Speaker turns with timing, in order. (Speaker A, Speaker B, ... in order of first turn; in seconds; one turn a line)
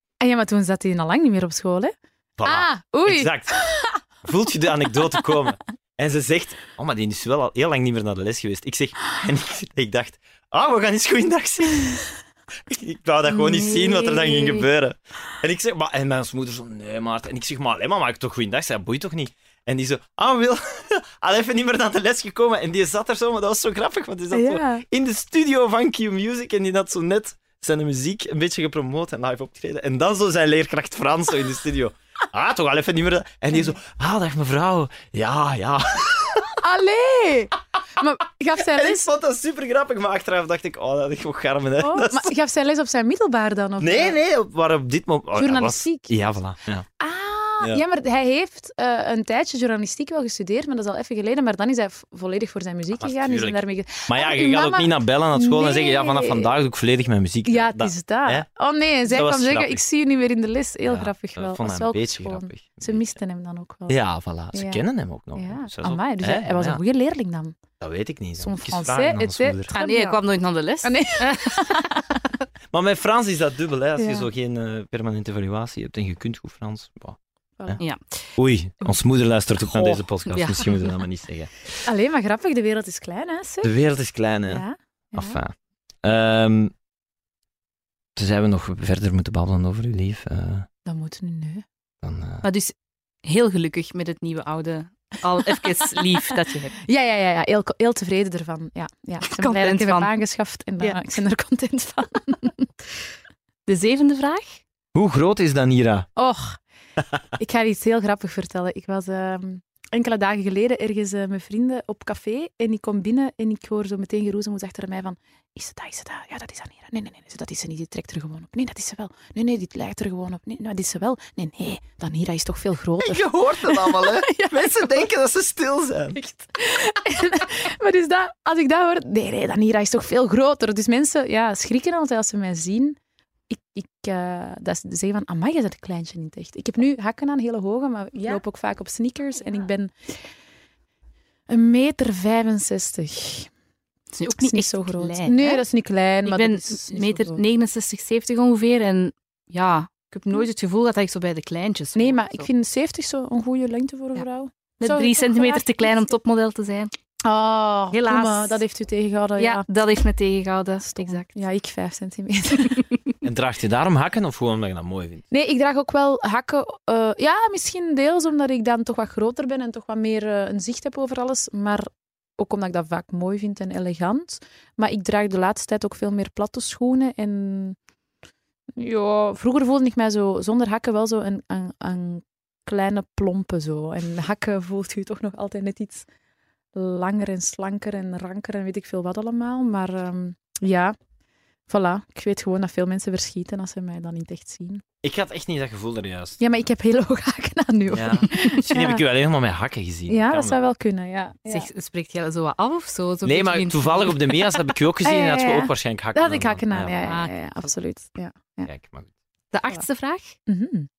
Speaker A: 0.2-1.9
Speaker B: 2.4-3.6
Speaker A: 2.4-4.0
Speaker B: 4.2-12.0
Speaker B: 12.7-36.6
Speaker A: 13.3-14.6
Speaker A: 24.3-24.8
Speaker A: 36.6-39.1
Speaker B: 38.6-42.3
Speaker A: 41.8-44.2
Speaker B: 43.8-46.9
Speaker A: 45.4-46.1
Speaker A: 47.0-56.5
Speaker B: 53.0-58.5
Speaker A: 57.5-64.0
Speaker B: 59.1-59.8
Speaker B: 60.9-63.1
Speaker B: 63.9-66.8
Speaker A: 64.5-67.6
Speaker B: 67.8-69.7
Speaker A: 68.4-70.2
Speaker C: 69.8-72.0
Speaker A: 70.8-72.1
Speaker B: 72.7-77.8
Speaker A: 74.0-74.3
Speaker C: 77.8-78.3
Speaker B: 78.4-81.8
Speaker C: 79.7-81.0
Speaker A: 81.8-83.7
Speaker B: 83.6-86.7
Speaker A: 84.5-85.4
Speaker B: 88.2-90.7
Speaker A: 90.8-91.7
Speaker B: 92.0-92.5
Speaker C: 92.4-96.8
Speaker A: 96.8-102.7
Speaker C: 99.3-100.1
Speaker C: 103.7-104.6
Speaker B: 104.9-106.1
Speaker A: 106.2-106.6
Speaker A: 107.4-125.0
Speaker B: 123.0-126.2
Speaker A: 126.2-133.0
Speaker A: 133.5-140.2
Speaker A: 141.5-143.5
Speaker C: 144.1-145.6
Speaker A: 144.4-147.4
Speaker C: 146.2-152.5
Speaker A: 151.9-156.1
Speaker C: 154.8-156.9
Speaker A: 157.2-159.7
Speaker C: 157.9-158.6
Speaker C: 159.4-161.4
Speaker A: 160.9-162.9
Speaker B: 163.2-165.2
Speaker A: 165.3-177.8
Speaker A: 178.8-186.1
Speaker A: 186.8-191.0
Speaker A: 191.7-194.8
Speaker B: 195.0-196.4
Speaker A: 196.4-199.0
Speaker B: 197.9-200.6
Speaker A: 200.1-201.7
Speaker C: 201.5-204.6
Speaker B: 203.2-206.9
Speaker A: 205.0-208.7
Speaker C: 207.0-207.3
Speaker B: 208.7-209.1
Speaker C: 209.5-210.4
Speaker A: 210.5-210.9